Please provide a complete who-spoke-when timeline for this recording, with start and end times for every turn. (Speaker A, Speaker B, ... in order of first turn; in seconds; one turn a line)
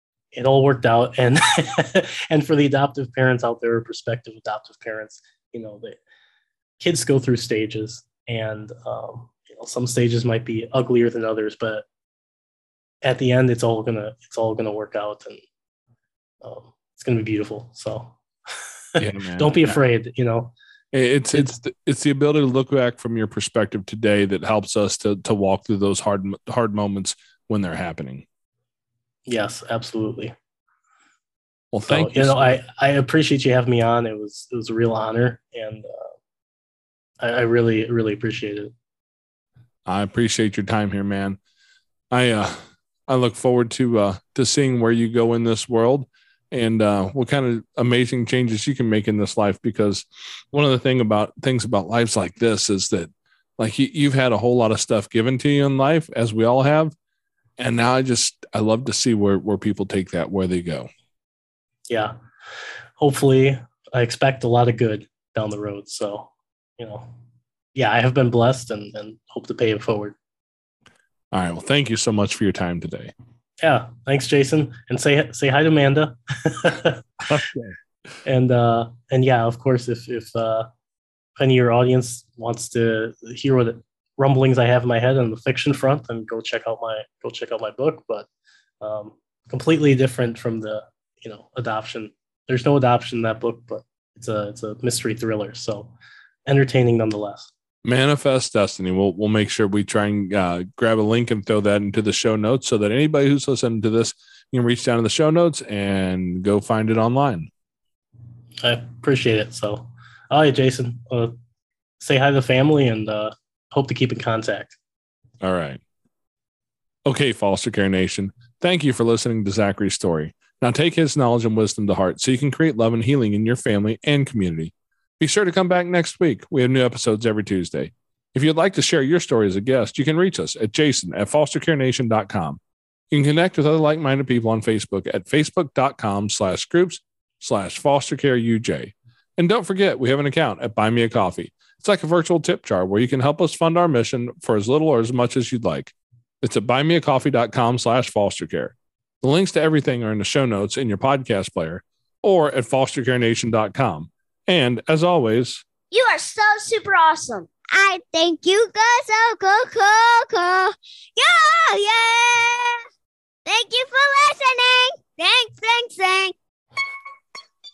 Speaker A: 0.3-6.0
Speaker A: 6.8-11.8
Speaker A: 13.0-15.4
Speaker A: 16.4-18.2
Speaker A: 18.9-20.5
Speaker B: 19.0-19.8
Speaker B: 20.9-28.2
Speaker A: 29.3-30.4
Speaker B: 31.7-32.6
Speaker A: 31.9-36.1
Speaker A: 37.2-38.7
Speaker B: 39.9-41.4
Speaker B: 42.1-56.9
Speaker B: 57.6-60.9
Speaker A: 61.9-62.2
Speaker A: 63.0-67.1
Speaker A: 67.8-70.2
Speaker B: 71.3-73.1
Speaker A: 73.6-77.0
Speaker B: 77.3-77.7
Speaker A: 78.2-80.7
Speaker A: 81.4-88.3
Speaker A: 88.8-95.9
Speaker A: 96.5-97.5
Speaker B: 97.8-107.5
Speaker A: 108.6-111.3
Speaker A: 112.0-114.8
Speaker B: 115.4-115.8
Speaker B: 117.0-132.6
Speaker B: 133.1-155.7
Speaker C: 155.9-162.8
Speaker C: 163.5-166.3